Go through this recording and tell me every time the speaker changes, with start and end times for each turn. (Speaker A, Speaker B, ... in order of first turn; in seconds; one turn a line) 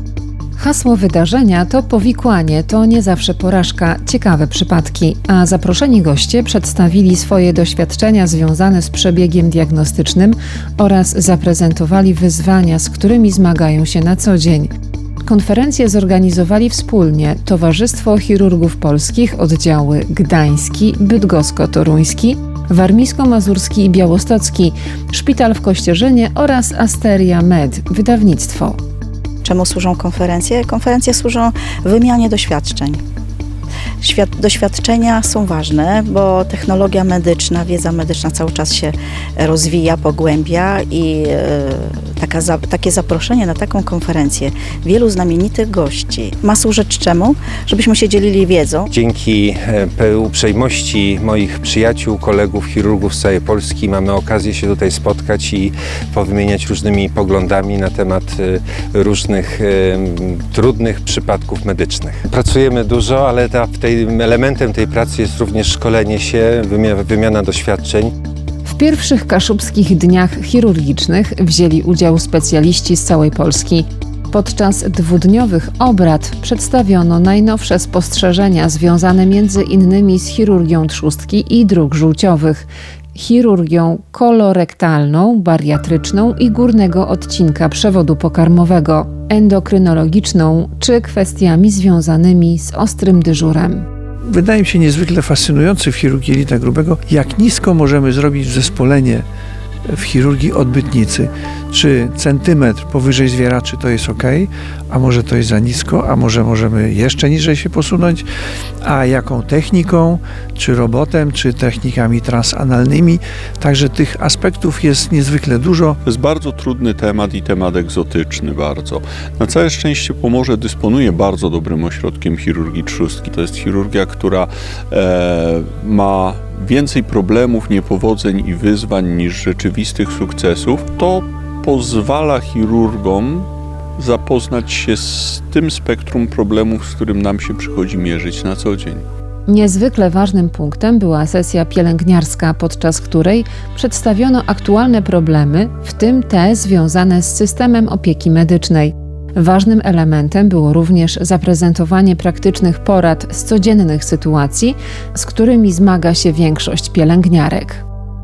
Speaker A: 0.6-14.7
Speaker A: 15.2-28.8
Speaker B: 29.4-33.0
Speaker B: 34.0-48.9
Speaker C: 48.9-68.1
Speaker A: 68.6-93.8
Speaker D: 94.3-99.2
Speaker D: 99.9-108.2
Speaker D: 108.8-116.0
Speaker E: 116.0-139.0
Speaker A: 139.5-157.8